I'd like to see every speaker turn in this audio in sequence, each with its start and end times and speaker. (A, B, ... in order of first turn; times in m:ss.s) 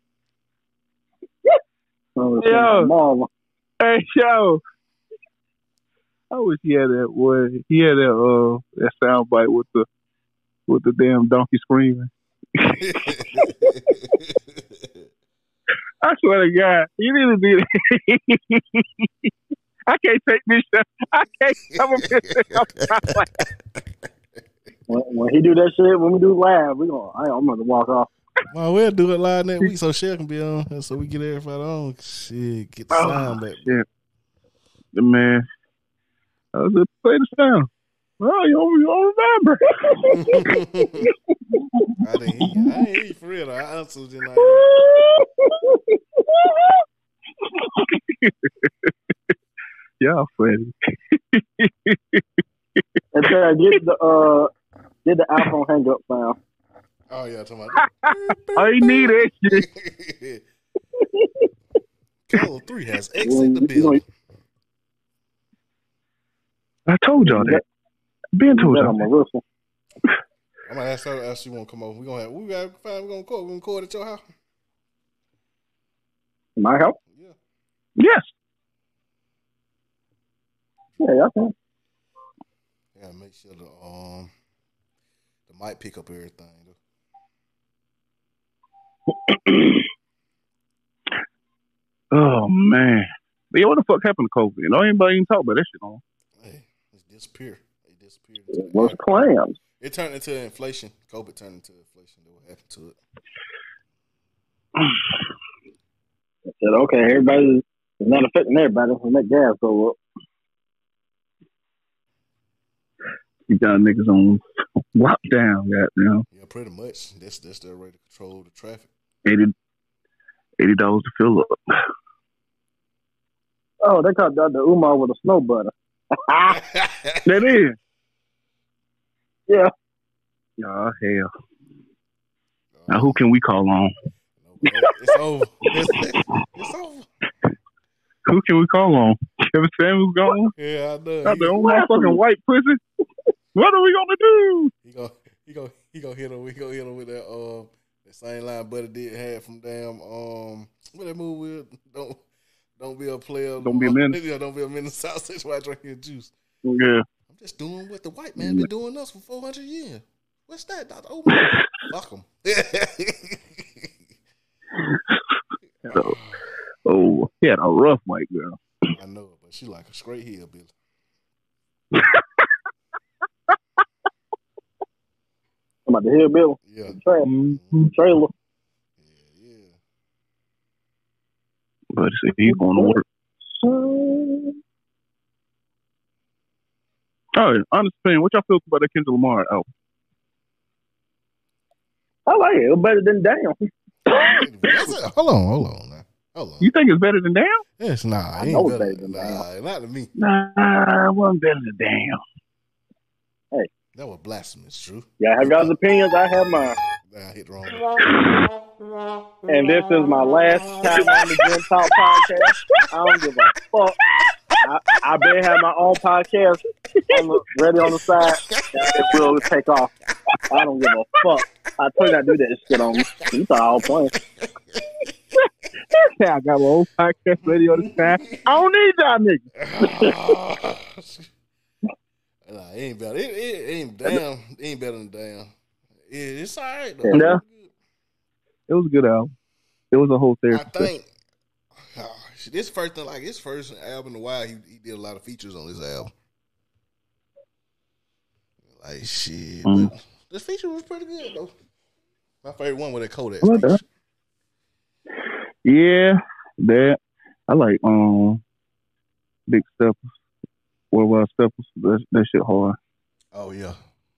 0:02.2-0:03.3 A
0:02.4-0:02.9 B
0:03.8-0:04.6 B
0:06.3-0:09.9 B
0:10.7-0:13.9 B
0:12.6-0:15.0 C
0:16.0-0:19.3 B
0:19.9-0:23.4 B
0:21.7-0:23.5 C
0:24.9-0:28.1 A
0:28.5-0:33.8 C
0:32.9-0:33.8 B
0:34.9-0:35.4 B
0:36.6-0:37.7 B
0:38.2-0:40.6 B
0:39.9-0:41.1 A
0:40.2-0:41.1 C
0:41.8-0:42.8 B
0:42.0-0:44.7 C
0:44.4-0:46.5 A
0:47.6-0:48.9 B
0:50.0-0:52.2 B
0:52.8-0:53.3 B
0:53.1-0:54.5 A
0:55.0-0:56.4 A
0:57.1-1:00.4 C
0:57.8-0:59.6 B
1:01.0-1:01.4 A
1:02.3-1:04.0 C
1:03.2-1:04.0 A
1:06.9-1:07.6 B
1:07.2-1:07.6 A
1:08.4-1:09.0 B
1:08.5-1:09.4 A
1:10.6-1:14.2 C
1:16.6-1:17.0 A
1:17.1-1:17.4 C
1:18.0-1:18.2 B
1:21.0-1:21.5 A
1:22.9-1:24.3 C
1:25.5-1:26.8 C
1:32.1-1:36.0 B
1:36.4-1:39.0 C
1:38.5-1:39.6 A
1:39.8-1:43.0 C
1:46.5-1:50.0 A
1:53.5-1:54.4 B
1:54.9-1:56.2 B
1:56.3-1:58.9 C
1:59.2-1:59.5 B
2:00.6-2:01.6 B
2:03.8-2:06.6 A
2:06.5-2:07.5 C
2:07.2-2:07.8 B
2:10.6-2:11.3 B
2:12.7-2:13.3 C
2:12.9-2:13.9 B
2:14.4-2:17.1 C
2:18.2-2:20.5 B
2:20.6-2:21.6 C
2:21.2-2:22.8 B
2:21.3-2:22.2 A
2:23.6-2:24.7 B
2:24.8-2:32.2 C
2:32.8-2:36.3 C
2:33.6-2:34.2 B
2:36.6-2:37.0 B
2:37.3-2:43.9 C
2:41.4-2:41.6 B
2:44.8-2:45.2 B
2:45.8-2:46.5 C
2:45.9-2:46.2 B
2:46.9-2:48.6 B
2:48.9-2:50.7 C
2:51.9-2:52.2 B
2:55.9-2:58.3 A
2:56.6-2:57.8 C
2:57.2-2:57.9 B
2:59.0-2:59.7 C
3:01.9-3:03.0 B
3:02.4-3:03.0 A
3:03.5-3:04.6 A
3:07.4-3:09.7 B
3:12.3-3:14.4 A
3:14.3-3:16.7 C
3:16.6-3:17.6 B
3:17.8-3:20.1 C
3:18.4-3:19.4 A
3:20.2-3:22.2 B
3:23.9-3:25.7 C
3:25.2-3:26.8 A
3:27.1-3:28.0 C
3:28.0-3:28.5 B
3:29.4-3:34.0 A
3:31.0-3:31.3 C
3:34.6-3:39.9 A
3:38.2-3:39.4 C
3:40.5-3:44.1 A
3:42.8-3:43.3 C
3:43.8-3:44.9 C
3:45.9-3:49.4 B
3:47.4-3:48.6 C
3:49.6-3:51.3 C
3:52.4-3:55.5 C
3:56.0-3:57.7 C
3:57.1-3:57.4 A
3:58.7-3:59.3 B
3:59.9-4:00.9 B
4:00.5-4:01.1 C
4:01.8-4:06.1 C
4:08.6-4:11.5 C
4:09.7-4:09.9 B
4:12.4-4:13.8 C
4:13.4-4:13.8 B
4:15.6-4:18.4 B
4:19.5-4:20.0 B
4:20.9-4:22.8 B
4:23.3-4:23.8 C